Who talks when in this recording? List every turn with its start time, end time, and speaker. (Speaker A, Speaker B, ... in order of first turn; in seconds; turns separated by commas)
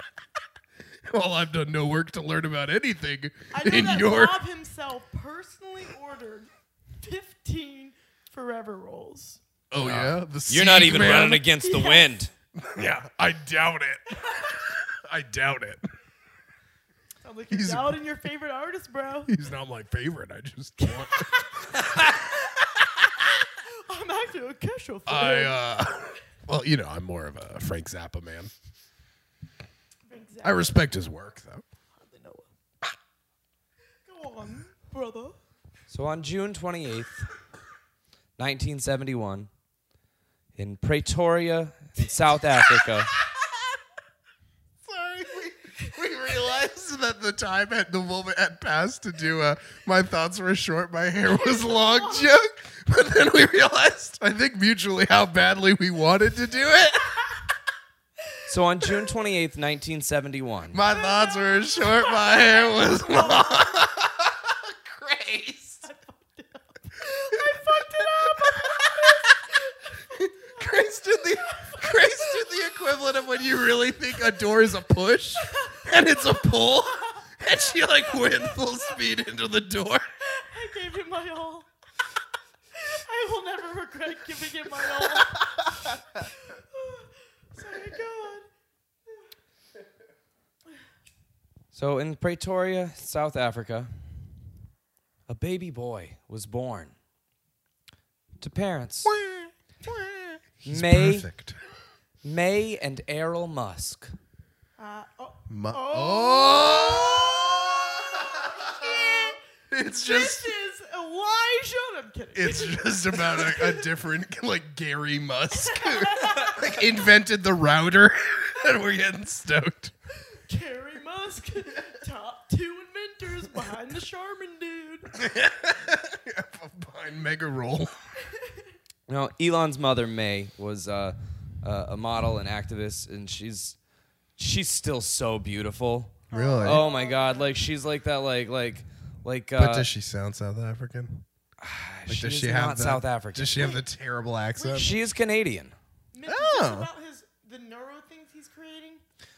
Speaker A: 1.1-4.4, Speaker B: 3.5-9.4, Speaker A: 9.7-11.5, Speaker C: 9.8-12.3, Speaker B: 11.6-12.1, Speaker A: 12.6-15.8, Speaker B: 17.2-19.3, Speaker A: 17.5-17.9, Speaker A: 19.3-23.2, Speaker B: 20.8-22.2, Speaker B: 23.5-25.6, Speaker A: 25.1-28.5, Speaker B: 30.1-30.8, Speaker A: 30.4-31.6, Speaker B: 31.9-32.5, Speaker B: 34.0-35.4, Speaker C: 35.9-37.3, Speaker C: 38.4-39.5, Speaker C: 40.6-43.1, Speaker A: 42.8-43.4, Speaker A: 44.8-57.5, Speaker B: 51.4-52.3, Speaker C: 58.5-60.8, Speaker A: 60.7-65.8, Speaker B: 60.9-63.4, Speaker B: 65.8-72.5, Speaker A: 68.0-69.4, Speaker A: 70.1-80.0, Speaker B: 75.4-76.5, Speaker B: 78.1-78.5, Speaker B: 80.2-81.7, Speaker B: 82.8-85.4, Speaker B: 86.4-88.5, Speaker C: 91.7-93.9, Speaker C: 95.3-96.9, Speaker C: 98.4-99.1, Speaker A: 99.0-101.6, Speaker C: 100.6-101.2, Speaker C: 102.2-104.1, Speaker B: 104.8-109.4, Speaker A: 105.5-110.5, Speaker B: 109.9-113.8, Speaker A: 112.3-119.9, Speaker B: 115.6-116.7, Speaker B: 120.5-125.1, Speaker A: 125.1-127.9, Speaker B: 128.3-128.7, Speaker C: 129.1-133.8, Speaker C: 134.4-139.9, Speaker A: 136.3-136.8, Speaker B: 136.3-137.6, Speaker A: 139.6-141.2, Speaker C: 141.6-143.8, Speaker A: 142.1-144.9, Speaker B: 144.6-145.0, Speaker C: 144.7-145.7, Speaker B: 146.1-149.0, Speaker A: 146.2-146.9